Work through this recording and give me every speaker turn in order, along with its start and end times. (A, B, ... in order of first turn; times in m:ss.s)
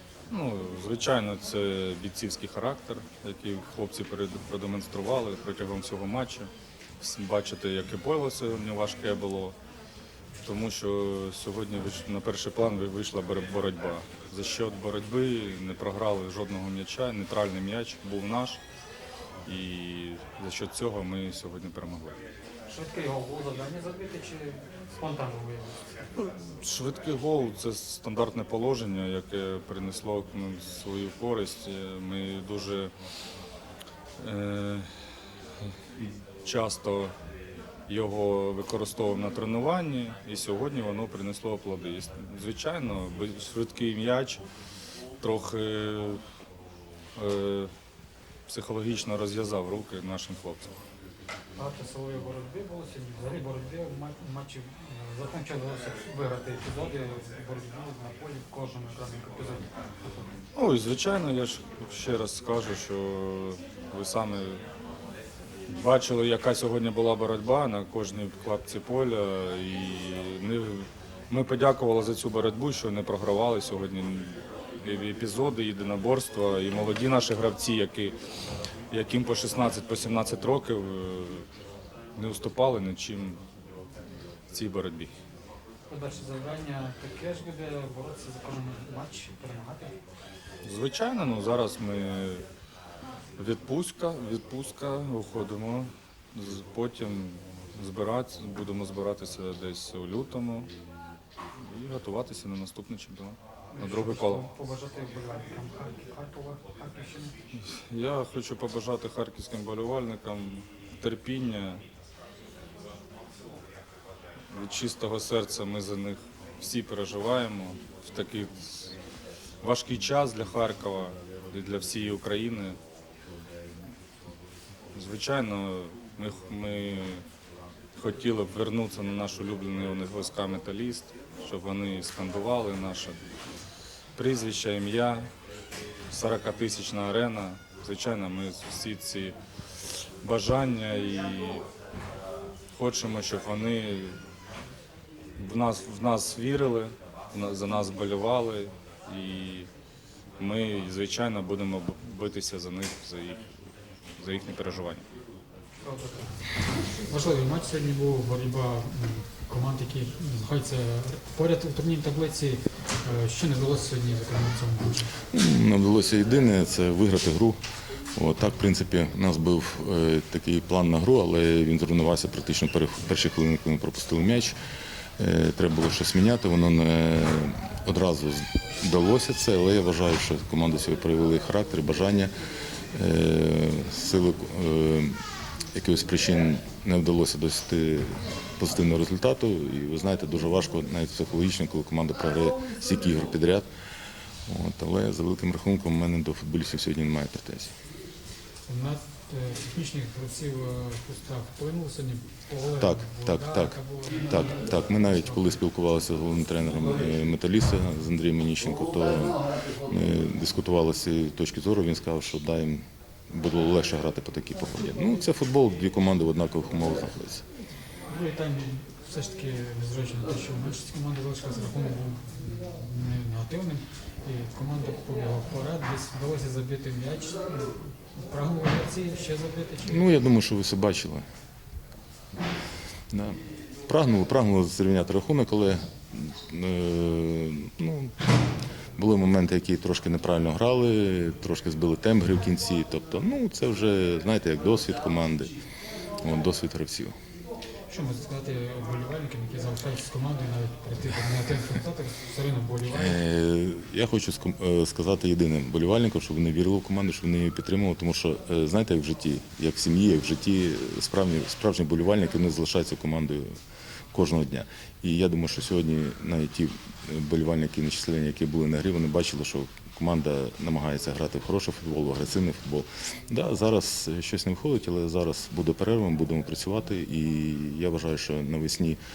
0:00.3-0:09.6 A
0:10.4-0:18.6 A
0:19.4-0:22.2 A
0:22.7-0:25.9 B
0:26.2-0:32.9 A
0:34.2-0:37.1 A
0:37.9-0:44.4 A
0:45.2-0:46.2 A
0:47.1-0:47.7 A
0:48.5-0:50.7 A
0:51.6-1:00.4 B
1:00.5-1:04.6 A
1:05.7-1:18.2 A
1:18.9-1:21.5 A
1:22.1-1:23.4 A
1:24.5-1:25.1 A
1:25.9-1:30.0 B
1:30.6-1:32.4 A
1:33.4-1:40.7 A
1:41.6-1:44.5 A
1:43.7-1:47.4 B
1:47.5-1:51.8 A
1:54.5-1:59.0 A
1:59.6-2:02.8 A
2:04.9-2:07.2 A
2:07.9-2:13.2 A
2:14.2-2:15.3 A
2:16.1-2:21.7 A
2:22.7-2:24.2 A
2:25.4-2:29.7 A
2:30.4-2:33.6 A
2:34.2-2:35.1 A
2:35.8-2:36.3 B
2:36.9-2:45.1 B
2:45.3-2:47.6 C
2:48.1-2:54.6 C
2:55.2-3:02.3 C
3:02.9-3:05.2 C
3:05.7-3:13.7 C
3:14.4-3:17.7 C
3:18.6-3:25.6 B
3:22.8-3:37.4 C
3:38.0-3:50.2 B
3:49.8-3:51.2 C
3:53.1-3:58.2 C
3:59.0-4:05.5 C
4:06.2-4:07.1 C
4:07.9-4:13.2 B
4:12.9-4:23.6 C
4:24.1-4:39.0 C